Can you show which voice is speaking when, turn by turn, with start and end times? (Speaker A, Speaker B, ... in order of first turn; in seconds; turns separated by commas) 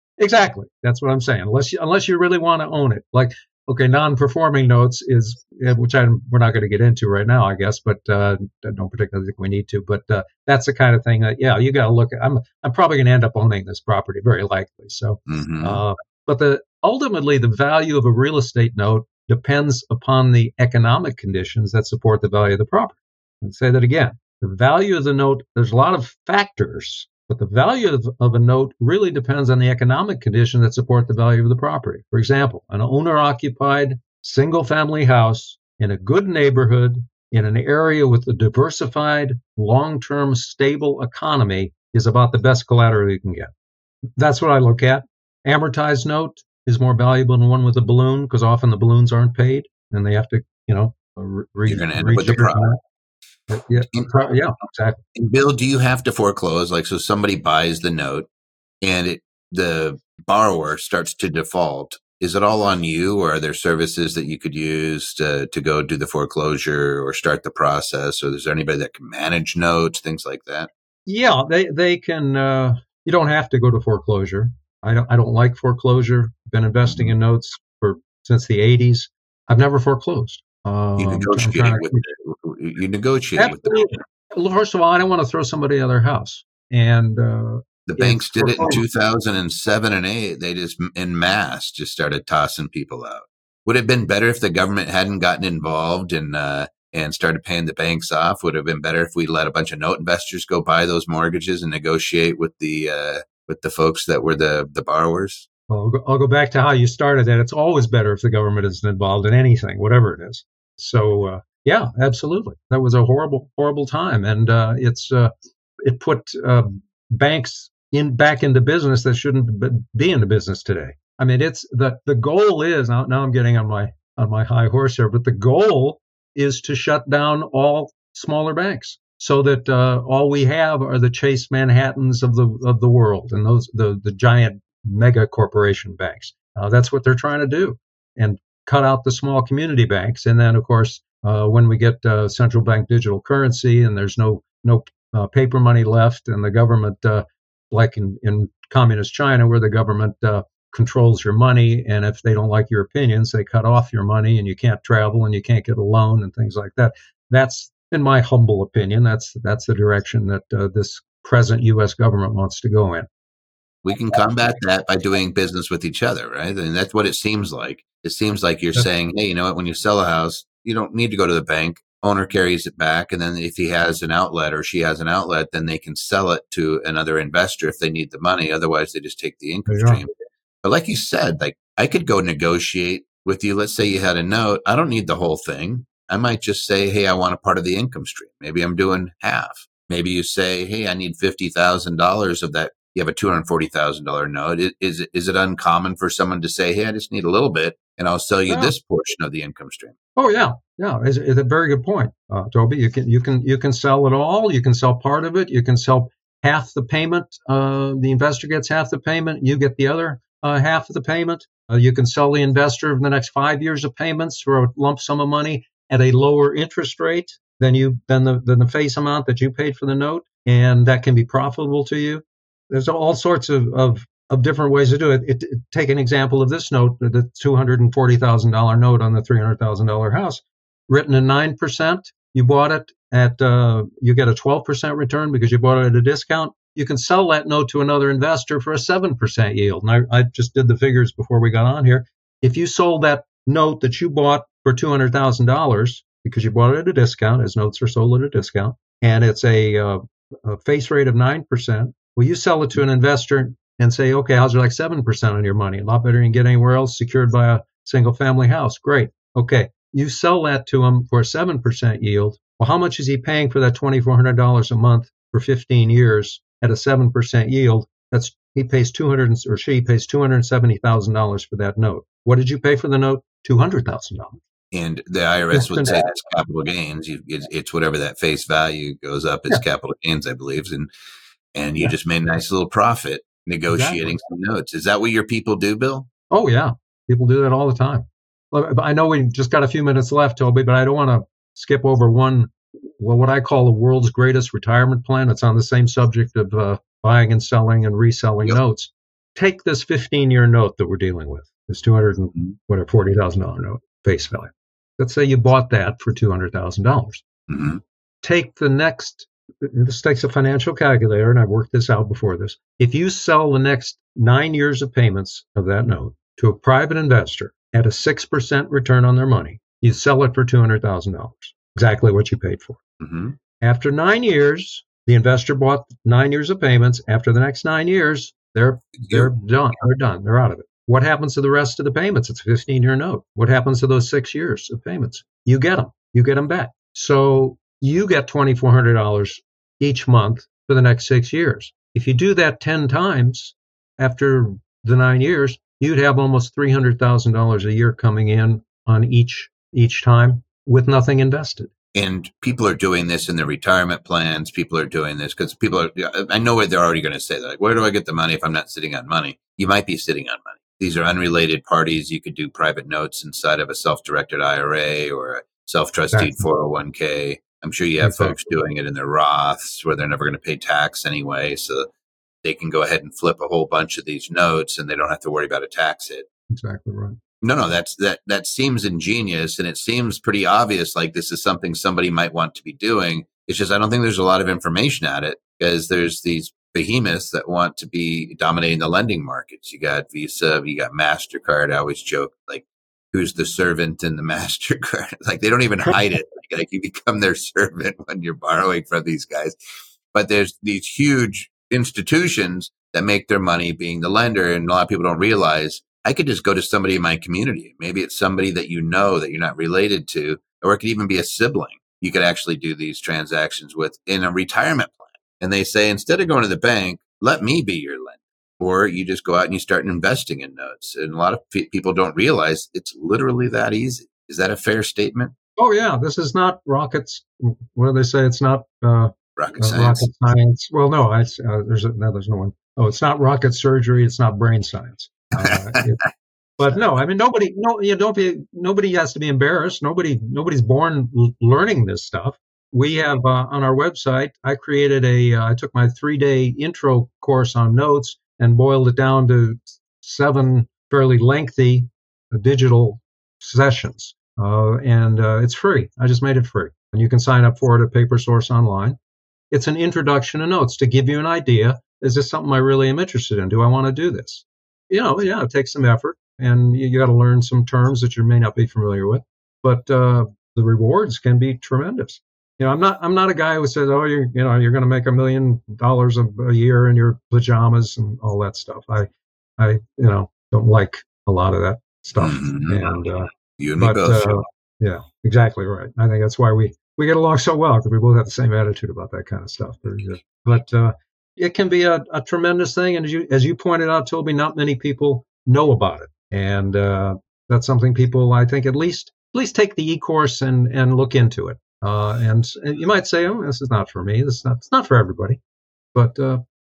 Speaker A: 0.2-43.5, Speaker B: 15.3-15.8, Speaker A: 44.2-52.8, Speaker B: 51.7-52.7, Speaker A: 53.5-55.0, Speaker B: 55.1-58.3, Speaker B: 58.8-70.7, Speaker A: 71.0-82.0, Speaker B: 81.0-84.0, Speaker A: 83.4-88.8, Speaker B: 87.8-105.5, Speaker A: 105.7-115.3, Speaker A: 115.8-163.1, Speaker B: 163.8-180.1, Speaker A: 179.7-180.0, Speaker B: 180.6-199.9, Speaker A: 198.5-198.7, Speaker A: 200.2-274.4, Speaker B: 274.7-280.9, Speaker A: 275.5-276.0, Speaker B: 281.5-286.1, Speaker A: 283.7-284.2, Speaker A: 286.3-307.2, Speaker B: 307.5-307.8, Speaker A: 308.2-322.8, Speaker B: 323.0-323.3, Speaker A: 323.6-351.7, Speaker B: 329.0-329.3, Speaker B: 351.9-371.9, Speaker A: 366.1-366.4, Speaker A: 368.0-368.4, Speaker B: 372.4-376.2, Speaker A: 376.5-377.2, Speaker B: 377.4-399.5, Speaker B: 400.1-425.3, Speaker A: 425.6-436.0, Speaker B: 429.4-430.1, Speaker A: 436.6-459.0, Speaker A: 459.5-505.4, Speaker B: 482.2-482.9, Speaker B: 483.6-484.4, Speaker A: 505.9-506.4